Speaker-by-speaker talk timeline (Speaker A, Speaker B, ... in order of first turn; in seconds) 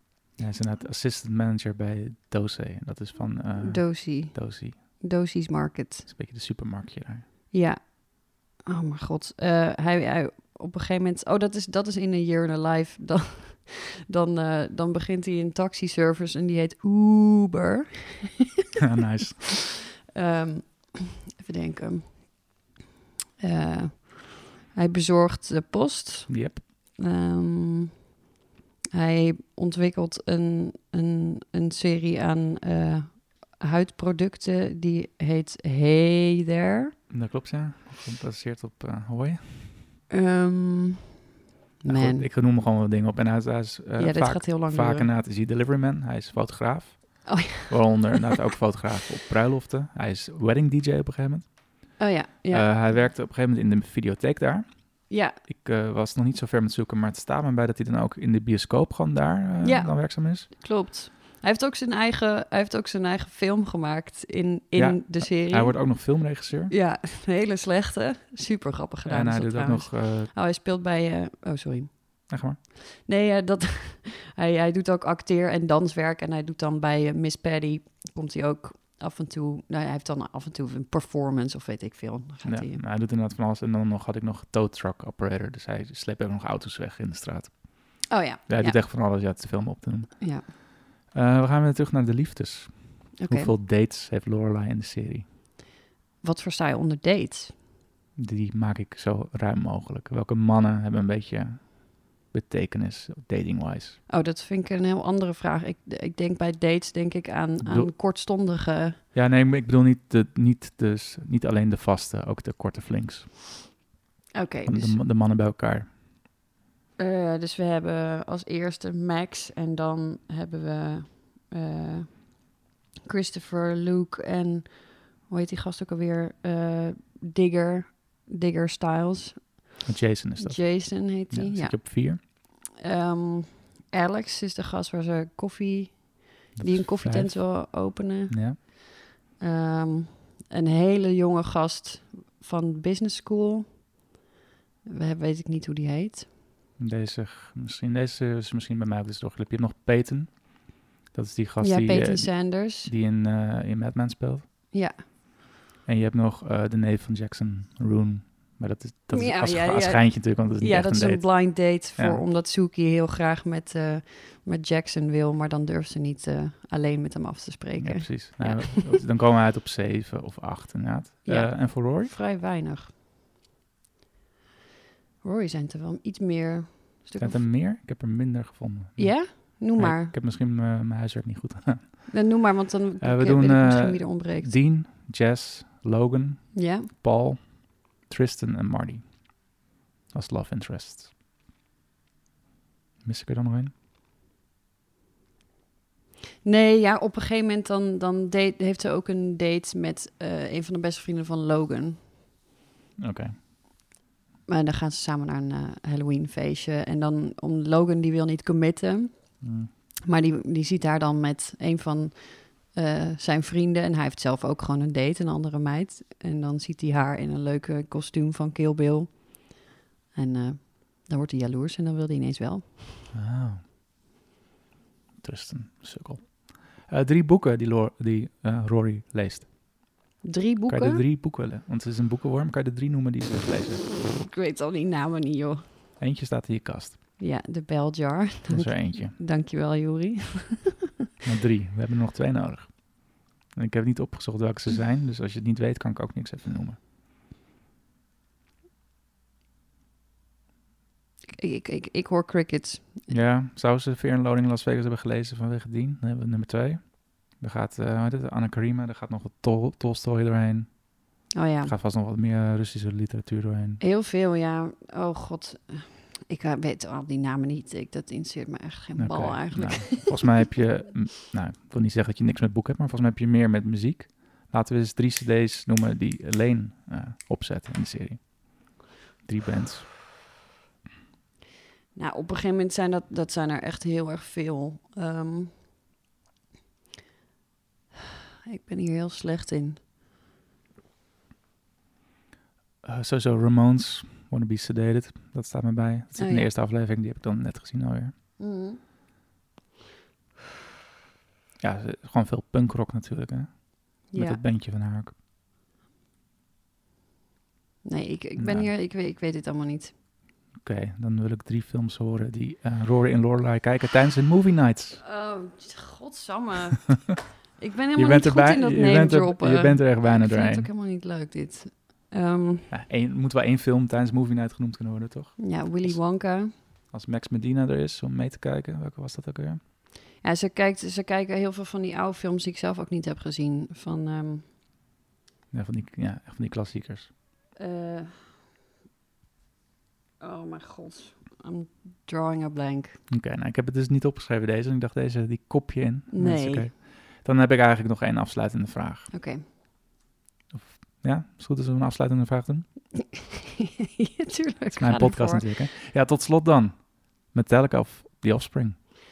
Speaker A: 0.4-4.8, 6.1-7.2, 18.8-19.4, 26.3-26.6, 37.1-39.9, 41.9-52.0, 52.5-60.5, 64.7-66.7, 69.0-70.3, 72.3-72.6, 82.4-90.5, 91.1-95.3, 98.2-104.0, 107.6-107.9, 109.1-113.5, 114.7-115.9, 129.8-132.2, 136.5-138.6, 146.8-154.5, 155.8-162.2, 167.8-172.1, 177.2-182.1, 183.0-189.3, 190.1-191.1, 193.0-193.7, 203.0-203.3, 209.4-209.7, 223.1-223.6, 225.2-229.5, 230.7-233.8, 236.0-237.0, 238.5-239.2, 241.2-246.8, 253.1-260.8, 261.6-263.8, 268.9-279.9, 292.8-298.1, 301.6-305.1, 308.4-308.7, 310.6-315.0, 317.9-320.7, 322.7-326.0, 326.9-329.6, 335.5-337.1, 343.1-349.1, 350.5-352.6, 354.7-358.8
Speaker B: 3.6-6.1, 7.5-18.5, 20.1-22.5, 23.4-28.0, 28.9-36.9, 40.1-41.2, 41.8-42.3, 44.0-45.1, 47.2-48.1, 52.0-52.9, 55.1-55.4, 59.6-65.9, 66.7-82.8, 88.1-88.8, 90.2-90.4, 93.2-93.5, 96.2-97.5, 104.1-109.0, 114.3-115.0, 117.0-122.5, 123.0-129.6, 130.4-138.7, 139.3-143.8, 144.8-146.3, 151.6-152.9, 154.7-155.0, 159.1-169.0, 171.2-172.9, 175.2-177.4, 179.0-180.1, 182.1-184.6, 186.5-186.9, 196.4-202.0, 204.5-209.3, 210.0-219.6, 220.1-222.9, 230.2-231.0, 234.0-235.6, 237.2-240.9, 251.3-253.1, 261.3-261.7, 263.8-270.4, 281.9-285.5, 288.4-289.8, 296.1-296.5, 298.4-298.8, 304.1-304.4, 307.8-309.9, 315.0-322.7, 325.4-326.5, 330.2-334.4, 337.6-338.1, 340.2-343.0, 346.1-346.7, 349.1-349.4, 353.0-355.4